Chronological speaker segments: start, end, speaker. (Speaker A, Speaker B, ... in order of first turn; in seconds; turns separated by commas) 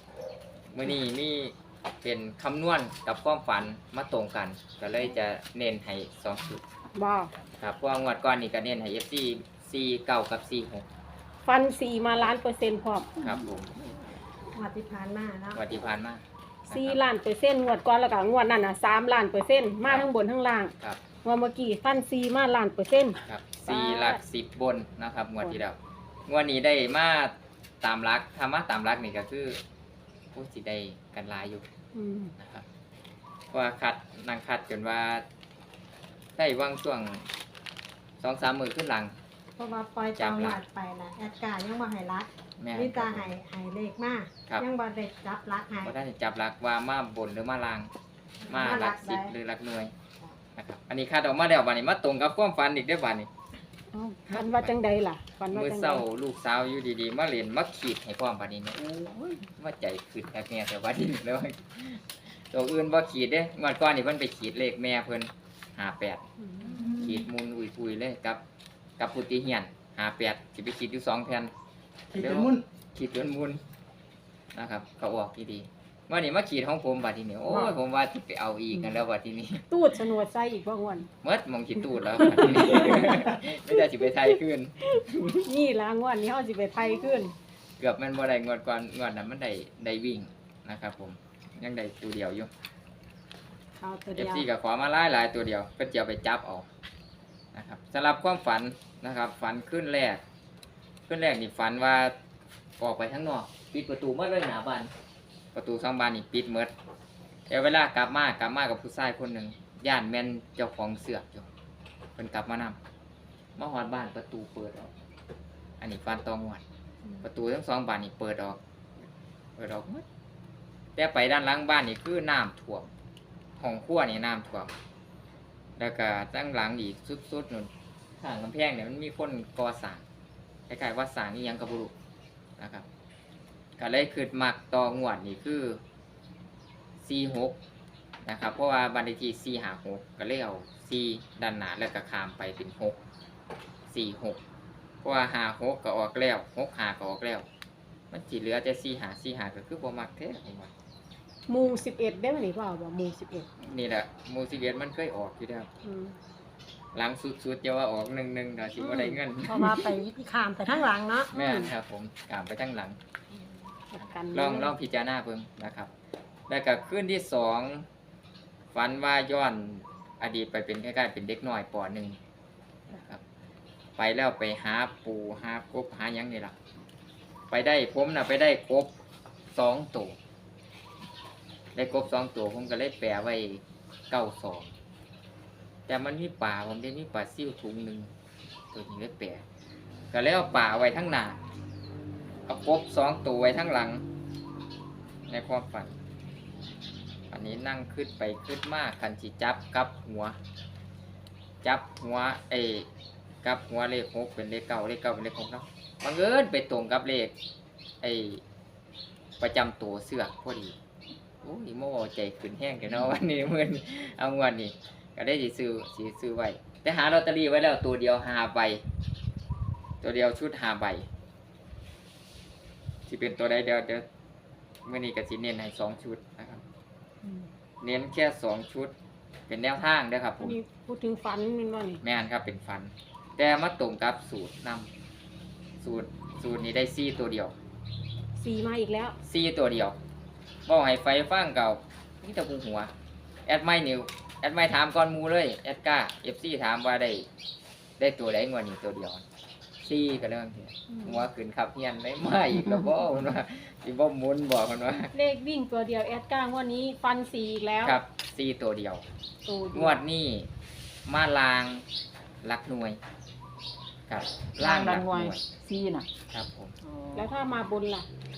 Speaker A: 0.7-6.6, Speaker B: 6.9-7.3, Speaker A: 7.6-10.9, Speaker B: 11.4-13.2, Speaker A: 13.2-13.7, Speaker C: 14.5-15.6, Speaker A: 15.5-17.0, Speaker B: 16.7-24.2, Speaker A: 23.2-29.6, Speaker A: 30.3-31.6, Speaker B: 31.9-32.3, Speaker A: 32.4-32.6, Speaker A: 33.5-35.2, Speaker A: 36.4-37.3, Speaker A: 38.2-39.2, Speaker C: 39.6-46.0, Speaker A: 40.2-40.6, Speaker A: 42.6-43.3, Speaker A: 45.8-47.9, Speaker C: 48.4-49.3, Speaker A: 48.5-49.9, Speaker A: 50.5-53.3, Speaker B: 53.9-56.0, Speaker A: 54.3-54.7, Speaker A: 55.5-66.2, Speaker B: 66.5-67.0, Speaker A: 66.8-68.4, Speaker A: 69.0-71.5, Speaker A: 72.1-73.6, Speaker A: 74.5-79.7, Speaker B: 79.7-81.1, Speaker A: 81.2-85.4, Speaker B: 82.1-83.3, Speaker B: 85.4-87.3, Speaker A: 87.8-92.5, Speaker C: 93.8-94.5, Speaker A: 94.2-96.7, Speaker A: 97.5-100.2, Speaker A: 101.1-102.2, Speaker A: 102.8-104.9, Speaker A: 105.5-106.7, Speaker A: 107.5-111.5, Speaker A: 112.2-112.8, Speaker A: 113.6-114.9, Speaker A: 115.8-116.6, Speaker A: 117.2-118.6, Speaker A: 119.6-120.0, Speaker A: 121.0-122.9, Speaker A: 123.6-124.8, Speaker A: 125.8-130.0, Speaker A: 130.7-131.9, Speaker A: 132.6-132.8, Speaker A: 133.8-135.8, Speaker A: 137.0-137.6, Speaker A: 138.2-143.0, Speaker A: 143.9-144.4, Speaker A: 145.0-147.5, Speaker A: 148.1-150.7, Speaker B: 151.5-153.5, Speaker A: 153.6-155.7, Speaker B: 155.8-156.2, Speaker A: 156.9-159.8, Speaker B: 158.8-159.2, Speaker C: 159.5-161.3, Speaker A: 161.3-163.0, Speaker B: 161.3-161.7, Speaker B: 163.9-164.7, Speaker A: 164.0-165.9, Speaker A: 166.5-167.9, Speaker A: 168.7-172.2, Speaker A: 172.9-173.2, Speaker A: 174.0-176.6, Speaker A: 177.5-178.9, Speaker A: 179.5-180.2, Speaker A: 181.7-184.7, Speaker A: 185.9-188.1, Speaker A: 188.7-189.4, Speaker A: 190.1-191.4, Speaker A: 192.5-194.0, Speaker A: 195.3-195.9, Speaker A: 197.3-200.4, Speaker A: 201.6-202.9, Speaker A: 203.4-207.3, Speaker A: 208.0-208.4, Speaker A: 209.4-210.8, Speaker A: 211.4-218.8, Speaker A: 220.0-221.1, Speaker A: 223.1-224.0, Speaker A: 224.8-226.6, Speaker A: 227.8-228.9, Speaker A: 229.5-230.6, Speaker B: 230.4-232.0, Speaker A: 232.0-234.9, Speaker A: 235.8-237.5, Speaker B: 238.3-239.2, Speaker A: 239.2-240.0, Speaker A: 240.7-242.9, Speaker A: 243.4-247.3, Speaker A: 248.0-249.2, Speaker A: 249.8-255.1, Speaker B: 250.9-251.2, Speaker B: 255.1-258.0, Speaker A: 257.8-259.1, Speaker B: 259.5-260.0, Speaker A: 259.7-260.5, Speaker A: 261.1-261.9, Speaker A: 262.4-263.0, Speaker A: 264.1-265.4, Speaker D: 264.6-266.1, Speaker A: 266.3-266.8, Speaker D: 266.8-267.3, Speaker B: 267.1-268.1